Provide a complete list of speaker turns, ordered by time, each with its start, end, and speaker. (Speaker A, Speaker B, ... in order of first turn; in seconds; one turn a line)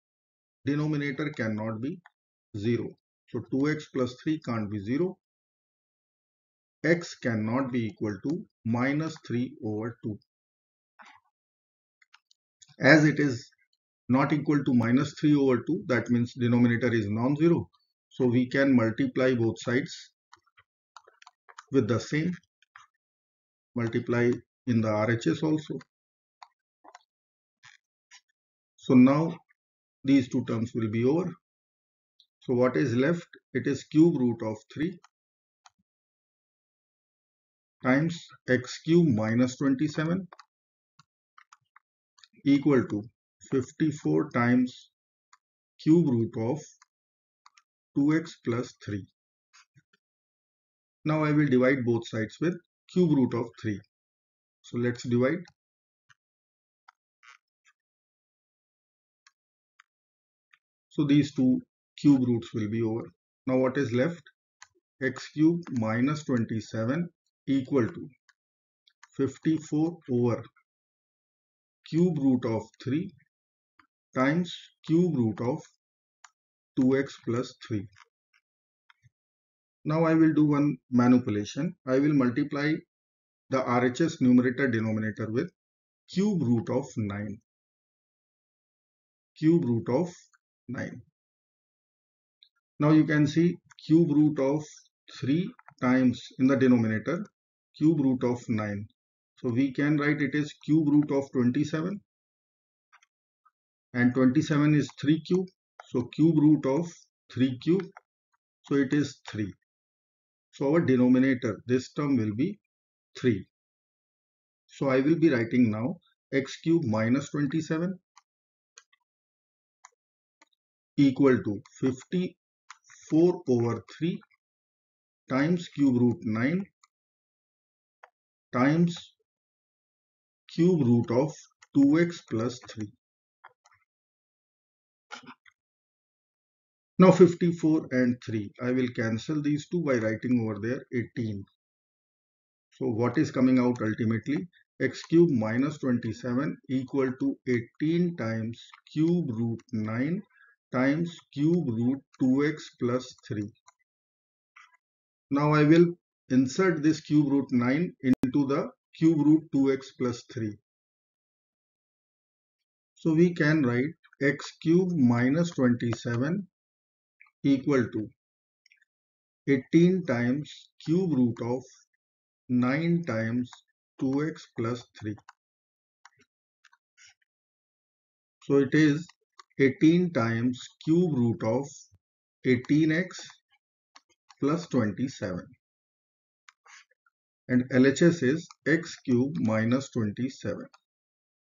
Speaker A: 0.6-2.0
Speaker A: 2.5-5.2
Speaker A: 6.8-10.2
Speaker A: 12.8-13.5
Speaker A: 14.1-20.1
Speaker A: 21.7-22.4
Speaker A: 23.7-25.8
Speaker A: 28.8-29.4
Speaker A: 30.0-31.3
Speaker A: 32.4-35.0
Speaker A: 37.8-40.3
Speaker A: 42.4-44.9
Speaker A: 45.8-46.8
Speaker A: 47.9-49.1
Speaker A: 51.0-53.8
Speaker A: 54.6-55.5
Speaker A: 60.9-64.3
Speaker A: 65.0-68.1
Speaker A: 69.1-70.5
Speaker A: 71.8-73.1
Speaker A: 74.1-75.7
Speaker A: 76.7-77.9
Speaker A: 79.8-82.8
Speaker A: 83.5-85.5
Speaker A: 86.1-87.4
Speaker A: 89.3-91.0
Speaker A: 92.8-102.0
Speaker A: 103.9-107.9
Speaker A: 108.6-109.5
Speaker A: 110.5-112.6
Speaker A: 113.1-113.5
Speaker A: 114.7-118.0
Speaker A: 121.0-122.4
Speaker A: 122.9-124.2
Speaker A: 125.3-126.7
Speaker A: 128.5-129.1
Speaker A: 130.5-132.9
Speaker A: 137.0-141.4
Speaker A: 142.7-153.5
Speaker A: 155.3-160.6
Speaker A: 163.0-166.5
Speaker A: 167.4-168.1
Speaker A: 169.5-171.7
Speaker A: 172.5-175.2
Speaker A: 178.4-181.8
Speaker A: 182.4-183.4
Speaker A: 184.4-185.5
Speaker A: 187.5-190.7